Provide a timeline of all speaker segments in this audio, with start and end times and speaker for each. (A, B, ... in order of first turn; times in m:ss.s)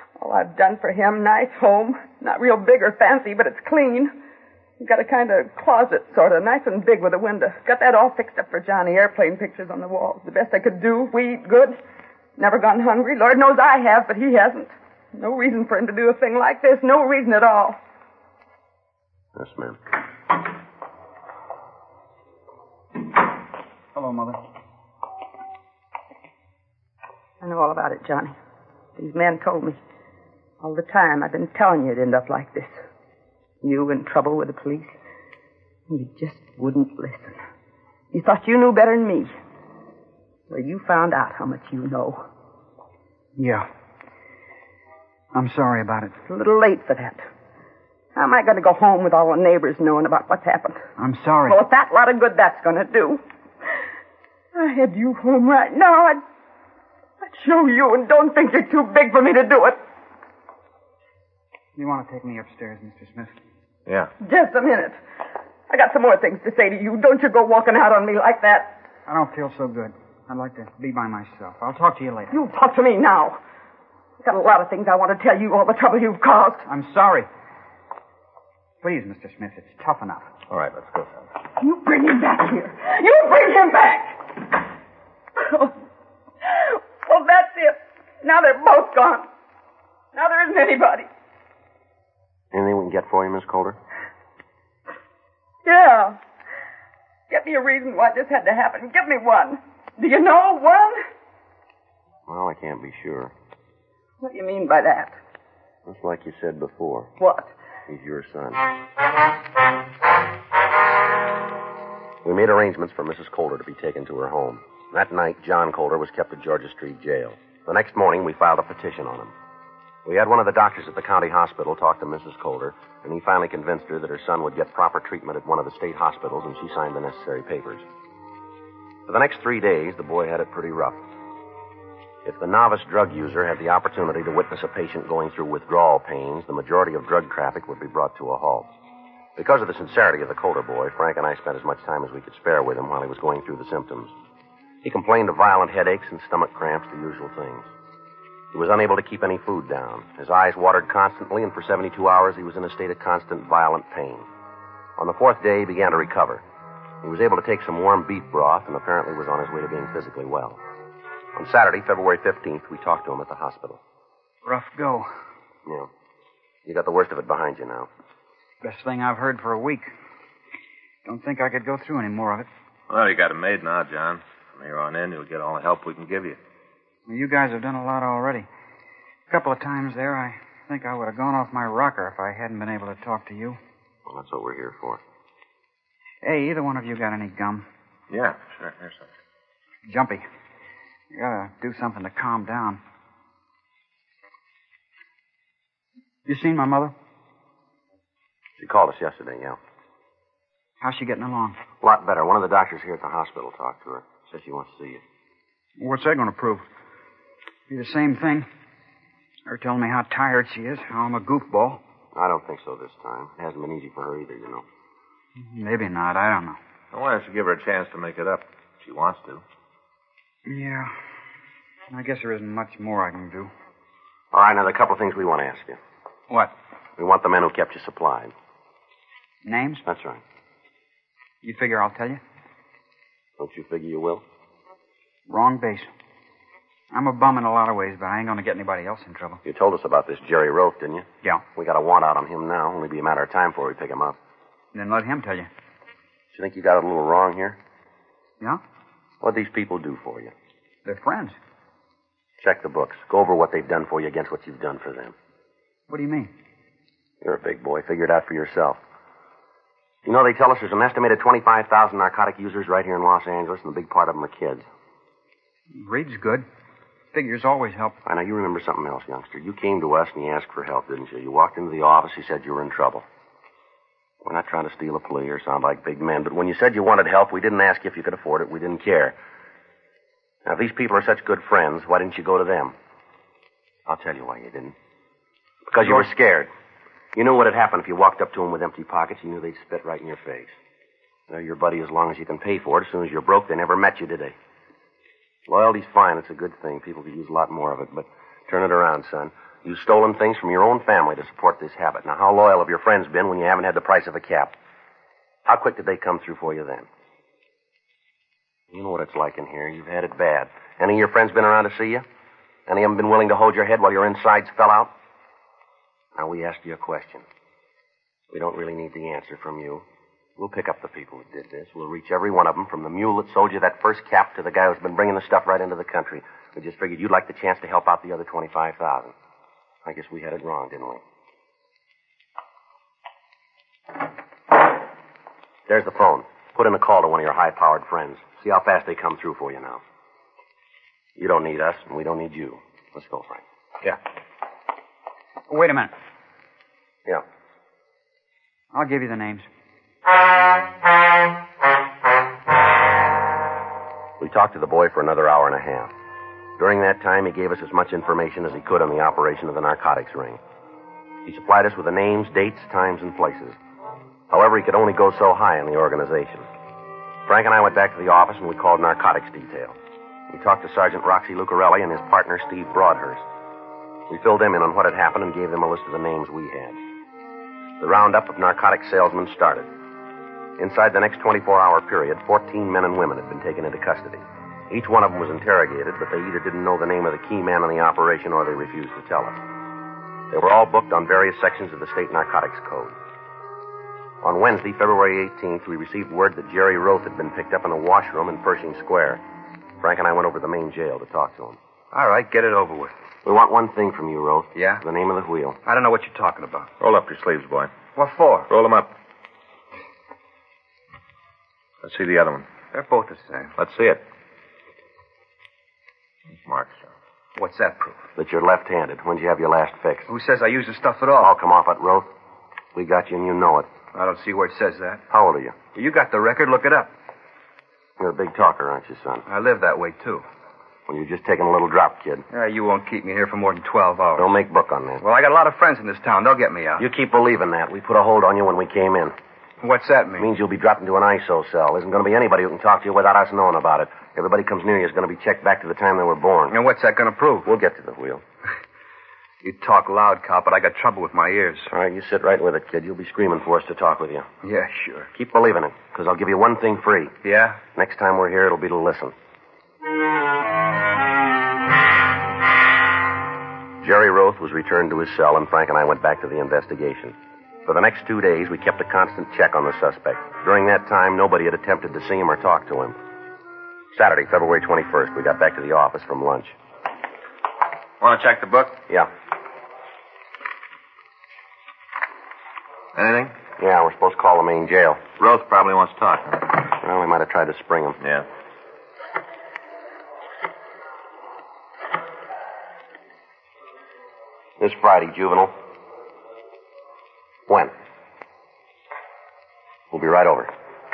0:00.2-0:04.1 A
0:04.8-0:11.8 A
0:12.4-0:17.8 A
0:19.4-0:19.8 B
0:23.9-0:24.4 C
0:27.4-0:28.3 A
0:29.0-0:29.8 A
0:30.6-0:32.7 A
0:33.6-0:34.9 A
0:35.9-0:37.4 A
0:38.1-0:39.3 A
0:40.5-0:42.2 A
0:43.4-0:43.6 C
0:45.3-0:46.2 C
0:46.3-0:47.2 A
0:48.1-0:50.8 A
0:51.0-0:51.6 C
0:51.5-0:53.2 A
0:54.5-0:56.2 A
0:57.2-0:59.8 A
1:01.8-1:03.3 C
1:04.2-1:05.0 A
1:05.7-1:08.8 A
1:09.1-1:12.3 C
1:12.3-1:13.4 A
1:14.2-1:16.6 A
1:16.7-1:17.3 C
1:18.8-1:20.3 C
1:20.5-1:21.2 D
1:21.6-1:24.4 A
1:25.4-1:25.7 A
1:26.4-1:29.3 A
1:30.1-1:31.1 A
1:32.5-1:33.8 B
1:35.6-1:36.2 A
1:37.3-1:41.0 A
1:42.3-1:43.3 B
1:44.2-1:45.2 A
1:45.8-1:47.1 B
1:47.2-1:47.5 A
1:47.9-1:48.6 B
1:52.2-1:59.3 B
2:00.0-2:07.8 B
2:09.1-2:11.0 B
2:12.2-2:18.7 B
2:19.4-2:24.1 B
2:24.8-2:27.7 B
2:28.5-2:34.2 B
2:35.0-2:36.4 B
2:37.0-2:40.6 B
2:41.4-2:43.8 B
2:44.4-2:45.1 C
2:46.6-2:47.9 B
2:48.6-2:49.9 C
2:51.0-2:52.5 C
2:52.9-2:56.4 D
2:57.1-2:58.5 C
2:59.3-3:03.6 C
3:04.0-3:05.0 B
3:06.2-3:07.6 C
3:08.1-3:09.0 D
3:09.8-3:10.2 C
3:11.1-3:12.8 C
3:16.2-3:16.9 C
3:18.6-3:19.6 B
3:20.8-3:21.6 C
3:21.8-3:25.0 B
3:25.8-3:26.6 C
3:27.7-3:28.5 C
3:29.5-3:31.8 C
3:32.1-3:34.6 B
3:35.4-3:36.6 C
3:36.9-3:39.4 D
3:40.4-3:40.9 C
3:41.9-3:43.5 C
3:44.3-3:45.8 B
3:47.0-3:48.3 B
3:49.4-3:49.8 C
3:49.8-3:50.2 B
3:51.4-3:52.2 C
3:53.4-3:54.2 B
3:55.3-3:55.9 C
3:56.9-3:59.4 C
3:59.4-4:04.2 B
4:04.7-4:05.5 C
4:06.3-4:07.6 B
4:09.2-4:10.3 B
4:10.8-4:11.4 C
4:12.4-4:15.1 B
4:15.9-4:16.3 C
4:17.2-4:18.8 B
4:20.0-4:24.6 B
4:25.7-4:26.4 C
4:27.1-4:28.0 C
4:28.0-4:33.0 B
4:34.2-4:39.1 B
4:40.4-4:42.7 B
4:43.9-4:44.7 B
4:45.7-4:46.5 B
4:47.1-4:50.5 B
4:51.3-4:54.3 B
4:55.5-5:04.5 B
5:05.5-5:06.9 B
5:08.7-5:12.0 B
5:12.7-5:14.9 B
5:16.2-5:17.2 B
5:18.3-5:19.8 B
5:20.4-5:29.1 B
5:29.8-5:31.0 B
5:35.7-5:39.8 B
5:41.2-5:43.4 B
5:45.5-5:45.9 C
5:48.7-5:49.4 C
5:54.2-5:55.9 B
5:56.6-6:00.4 B
6:01.2-6:03.6 B
6:04.3-6:06.4 B
6:07.2-6:09.8 B
6:10.3-6:13.2 B
6:14.1-6:16.8 B
6:17.8-6:19.7 B
6:20.6-6:29.4 B
6:30.3-6:32.9 B
6:34.2-6:39.2 B
6:39.8-6:41.6 B
6:41.9-6:42.9 E
6:43.2-6:45.6 B
6:44.5-6:44.8 E
6:45.6-6:46.7 E
6:46.8-6:47.7 D
6:48.0-6:48.5 E
6:48.5-6:48.9 D
6:51.8-6:52.5 D
6:52.7-6:53.5 E
6:53.6-6:54.0 D
6:56.4-6:56.9 D
6:57.4-6:58.0 E
6:58.2-7:00.1 B
7:00.1-7:01.3 E
7:01.2-7:02.1 B
7:02.7-7:03.7 B
7:03.9-7:05.0 E
7:05.1-7:05.6 B
7:05.7-7:06.9 E
7:08.0-7:09.2 B
7:09.3-7:10.2 E
7:10.9-7:12.2 B
7:12.3-7:14.4 E
7:14.2-7:15.0 B
7:15.0-7:16.9 E
7:16.8-7:19.1 B
7:19.6-7:20.3 E
7:20.2-7:26.6 B
7:26.5-7:27.5 E
7:27.4-7:28.2 B
7:29.4-7:31.7 E
7:31.7-7:34.3 B
7:34.4-7:35.1 E
7:35.1-7:37.2 B
7:37.2-7:37.6 E
7:37.7-7:39.1 B
7:43.8-7:47.1 B
7:47.6-7:53.0 B
7:53.9-7:56.5 B
7:58.0-7:58.8 D
8:02.9-8:03.3 D
8:03.6-8:05.0 B
8:05.2-8:06.6 D
8:06.7-8:08.0 B
8:08.0-8:08.2 D
8:14.6-8:15.5 B
8:19.9-8:20.5 B